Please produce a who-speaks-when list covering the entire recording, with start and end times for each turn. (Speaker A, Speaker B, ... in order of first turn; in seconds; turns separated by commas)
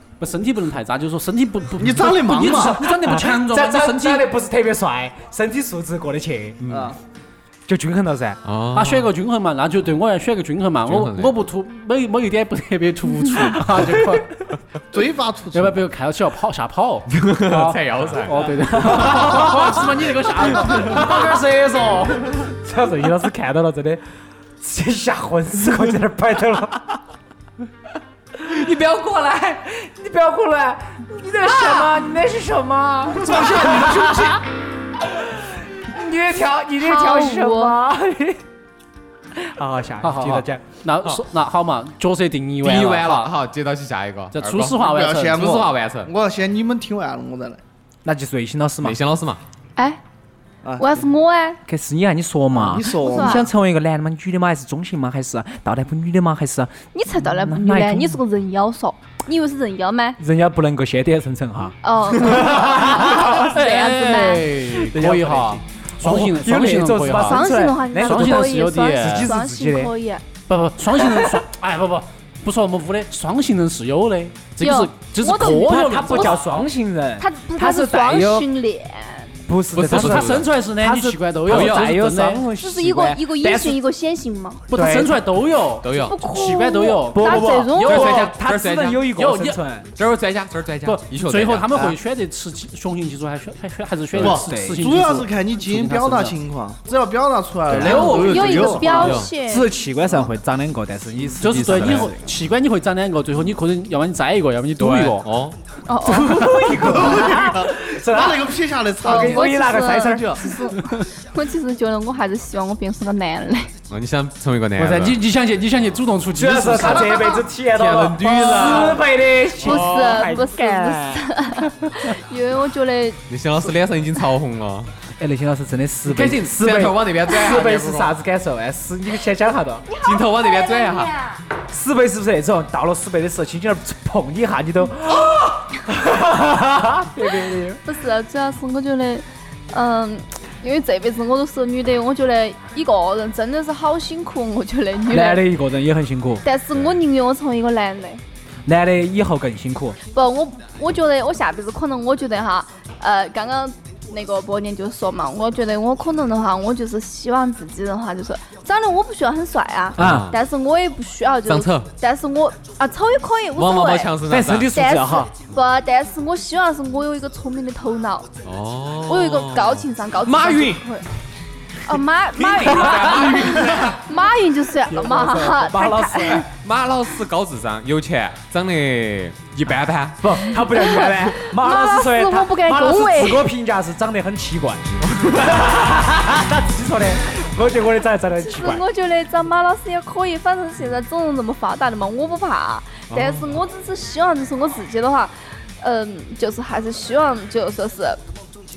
Speaker A: 0.2-4.3, Speaker B: 1.8-2.9, Speaker C: 2.9-6.6, Speaker D: 6.6-6.9, Speaker B: 6.7-7.0, Speaker C: 7.7-8.4, Speaker D: 8.4-9.1, Speaker A: 8.7-14.3, Speaker D: 10.8-11.4, Speaker C: 13.7-14.2, Speaker B: 14.9-15.8, Speaker A: 15.5-21.5, Speaker D: 17.1-18.5, Speaker C: 18.4-19.8, Speaker C: 20.5-24.0, Speaker C: 24.6-26.9, Speaker C: 28.4-34.4, Speaker D: 28.5-29.3, Speaker A: 33.2-34.1, Speaker D: 33.3-34.0, Speaker C: 35.0-38.4, Speaker E: 36.8-37.8, Speaker C: 39.3-40.6, Speaker A: 40.0-43.3, Speaker D: 42.6-46.1, Speaker A: 44.3-45.5, Speaker B: 44.8-47.6, Speaker C: 48.0-49.0, Speaker D: 48.8-49.4, Speaker B: 50.6-51.0, Speaker E: 50.8-51.6, Speaker C: 51.7-58.2, Speaker B: 52.5-53.4, Speaker E: 52.8-53.5, Speaker E: 56.9-60.2, Speaker C: 60.2-61.8, Speaker E: 61.8-64.5, Speaker C: 62.3-63.4, Speaker A: 63.3-67.5, Speaker C: 64.9-65.4, Speaker C: 66.0-69.9, Speaker E: 67.1-70.2, Speaker A: 68.0-69.3, Speaker A: 70.5-76.4, Speaker C: 71.0-71.4, Speaker E: 74.6-76.4, Speaker C: 75.4-78.5, Speaker E: 77.2-79.3, Speaker C: 79.5-83.8, Speaker D: 79.7-80.5, Speaker A: 79.8-82.5, Speaker D: 81.5-81.9, Speaker E: 82.5-84.6, Speaker A: 84.7-88.5, Speaker C: 84.7-85.2, Speaker D: 85.8-86.2, Speaker E: 86.0-88.1, Speaker C: 87.1-89.9, Speaker D: 87.8-89.1, Speaker A: 89.0-89.6, Speaker D: 90.0-91.9, Speaker A: 90.8-96.3, Speaker B: 94.2-99.2, Speaker C: 94.2-94.8, Speaker A: 97.7-99.0, Speaker D: 97.7-98.2, Speaker C: 97.8-102.2, Speaker E: 98.1-99.7, Speaker D: 98.9-99.3, Speaker D: 101.2-102.1, Speaker A: 101.4-105.3, Speaker D: 104.8-105.6, Speaker E: 105.9-106.6, Speaker C: 106.0-110.5, Speaker B: 106.7-110.4, Speaker E: 109.0-113.7, Speaker A: 110.8-111.1, Speaker D: 113.9-115.2, Speaker A: 114.8-117.3, Speaker C: 116.3-122.1, Speaker E: 117.1-117.4, Speaker D: 117.7-119.0, Speaker E: 118.5-119.0, Speaker D: 119.6-120.3, Speaker E: 119.6-123.2, Speaker D: 123.3-124.9, Speaker C: 125.2-129.9, Speaker D: 126.0-128.1, Speaker E: 129.9-131.3, Speaker D: 130.0-131.1, Speaker C: 131.7-137.8, Speaker E: 137.5-145.4, Speaker C: 145.1-146.4, Speaker E: 146.4-148.2, Speaker C: 148.7-150.0, Speaker E: 150.1-164.2, Speaker C: 160.0-160.3, Speaker D: 160.0-160.4, Speaker D: 161.4-161.9, Speaker D: 163.6-164.7, Speaker C: 164.3-165.3, Speaker E: 164.7-168.3, Speaker D: 168.4-170.8, Speaker E: 169.1-171.0, Speaker E: 171.8-176.5, Speaker D: 172.3-174.0, Speaker C: 172.7-173.9, Speaker C: 174.9-176.4, Speaker D: 176.3-180.3, Speaker C: 180.2-188.8, Speaker E: 180.6-183.5, Speaker D: 185.0-185.7, Speaker E: 188.4-198.2, Speaker D: 193.1-193.5